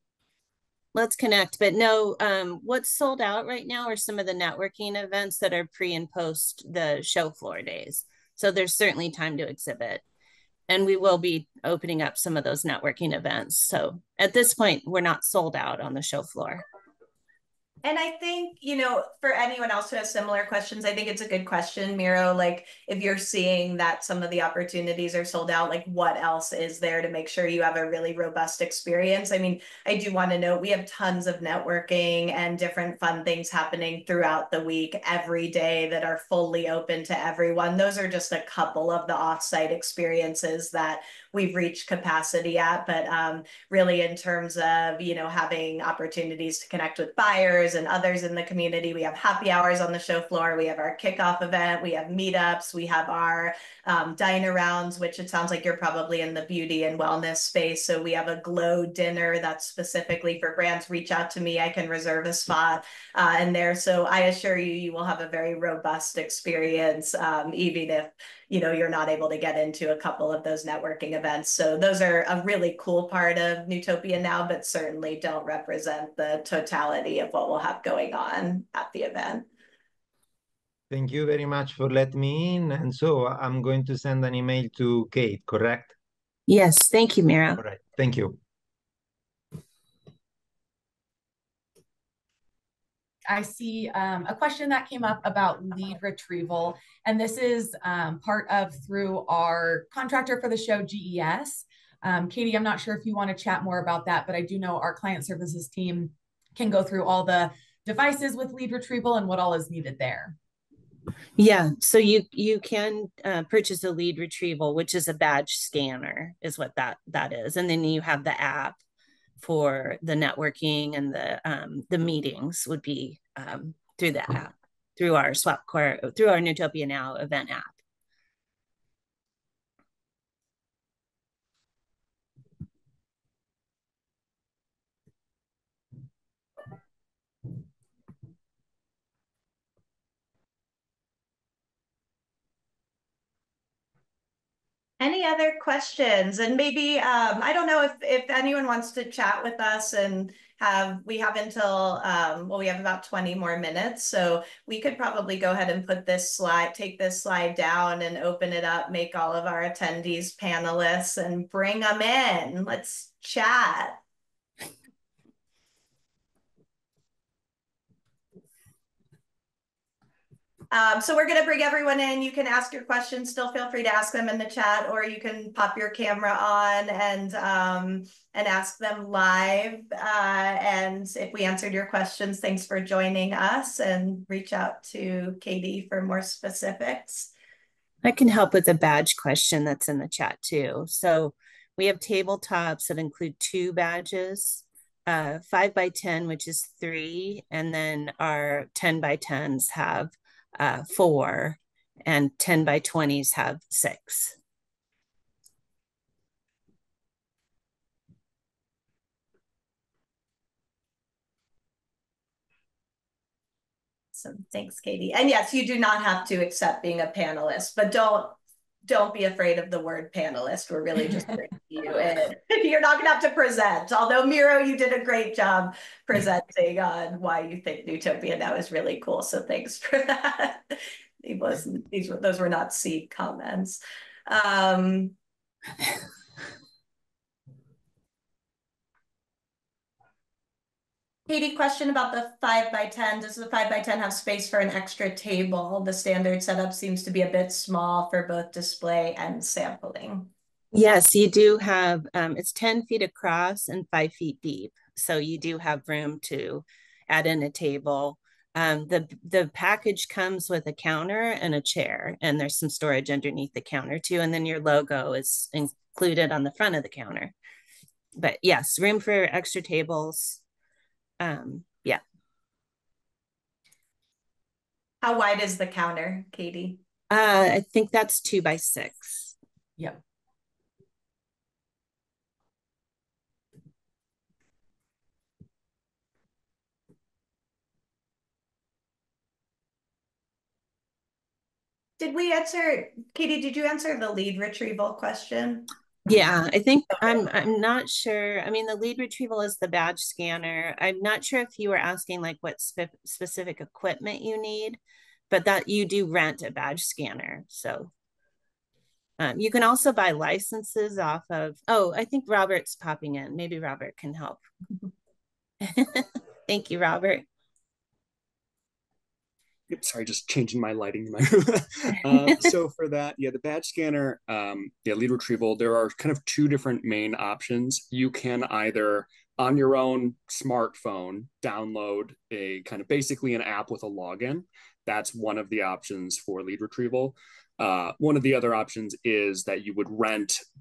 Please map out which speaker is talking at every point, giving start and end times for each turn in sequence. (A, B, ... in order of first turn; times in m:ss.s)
0:00.9-0:10.0 A
0:10.7-0:16.6 A
0:17.8-1:19.4 B
1:20.9-1:25.9 C
1:26.5-1:27.6 A
1:27.6-1:28.4 C
1:33.3-1:50.4 D
1:51.4-1:58.8 A
1:59.4-2:07.8 A
2:25.0-2:44.0 B
2:50.7-3:07.3 B
3:08.0-3:24.3 A
3:34.1-3:55.1 B
4:01.3-4:10.3 B
4:10.7-4:27.3 A
4:28.2-4:30.4 A
4:31.2-4:32.0 A
4:35.0-4:36.8 B
4:37.1-4:39.3 A
4:52.0-4:55.7 B
4:56.0-5:04.8 A
5:05.3-5:07.9 A
5:09.2-5:14.4 A
5:15.6-5:17.2 A
5:19.7-5:40.4 E